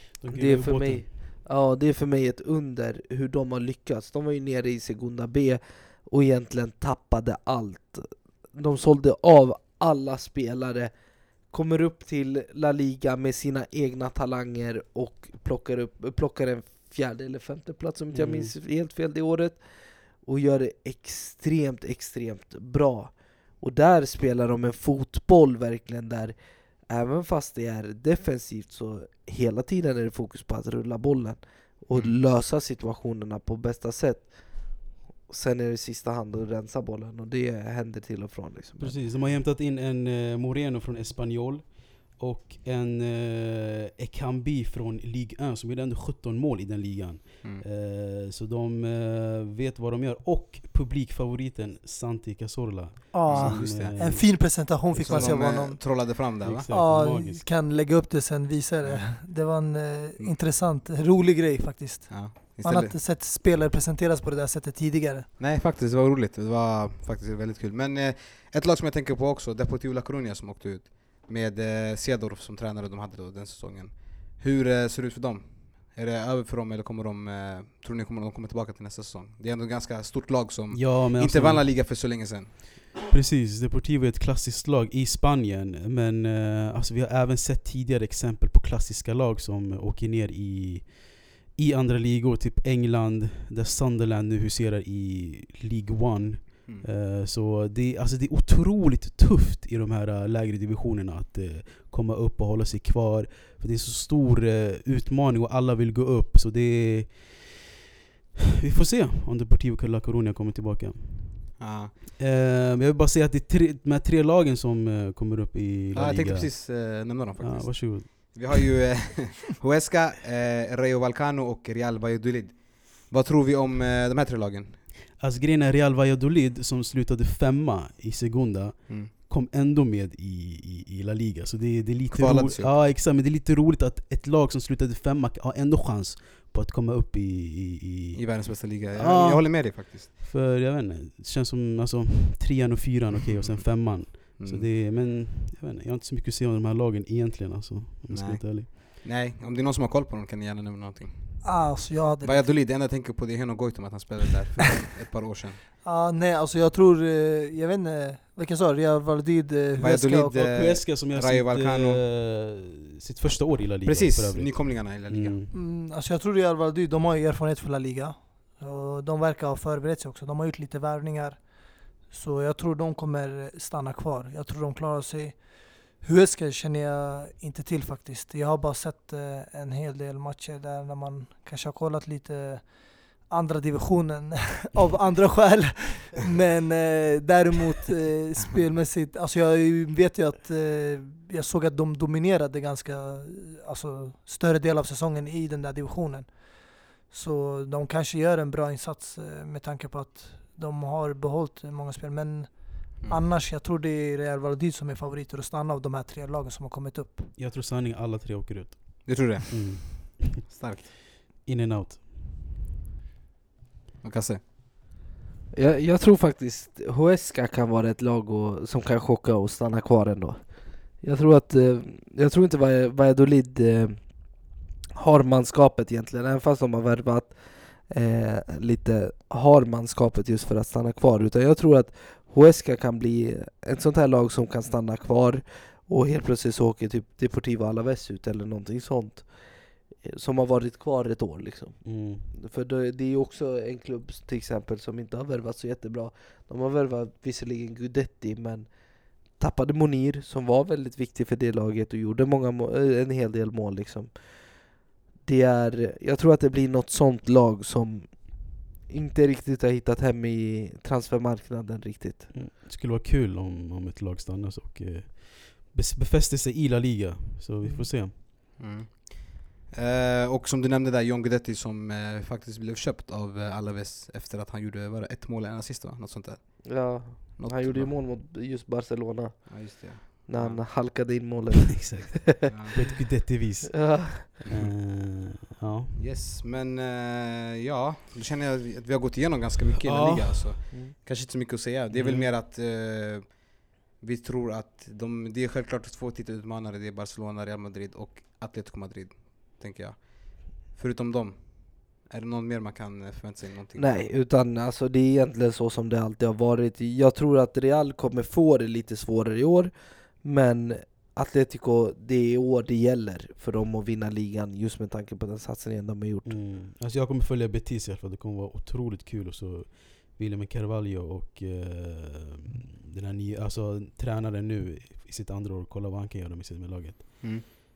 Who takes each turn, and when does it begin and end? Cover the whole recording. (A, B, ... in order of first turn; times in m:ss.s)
0:00.1-0:01.2 A
0:00.3-0:26.4 B
0:18.1-0:18.6 A
0:26.9-0:39.0 B
0:31.9-0:32.2 C
0:38.8-0:55.6 A
0:53.1-1:05.3 D
0:53.3-0:56.7 C
0:56.4-0:57.4 A
0:58.8-0:59.3 C
1:02.1-1:03.0 C
1:05.4-1:22.6 C
1:20.7-1:22.3 A
1:23.0-1:47.6 A
1:48.6-1:51.6 A
1:51.6-1:51.9 C
1:52.2-1:58.7 A
1:55.9-2:04.8 C
2:05.2-2:28.7 A
2:12.1-2:12.7 C
2:18.2-2:20.1 C
2:23.4-2:24.7 C
2:28.1-2:35.6 C
2:31.4-2:32.5 D
2:35.8-2:40.6 D
2:39.8-2:42.0 C
2:40.4-2:45.5 A
2:43.8-2:45.4 C
2:45.5-3:27.3 D
3:27.4-3:30.5 A
3:29.0-3:30.9 C
3:31.4-3:32.3 A
3:34.0-3:34.4 C
3:35.5-4:22.3 B
4:01.8-4:02.3 A
4:22.3-4:28.2 A
4:28.6-4:38.0 C
4:36.7-4:42.8 B
4:39.5-4:40.6 C
4:41.7-4:46.0 A
4:42.5-4:42.8 C
4:43.7-4:44.3 B
4:46.0-5:04.1 C
4:49.8-4:50.6 A
4:51.9-4:52.3 A
5:03.8-5:16.4 B
5:16.2-5:27.2 A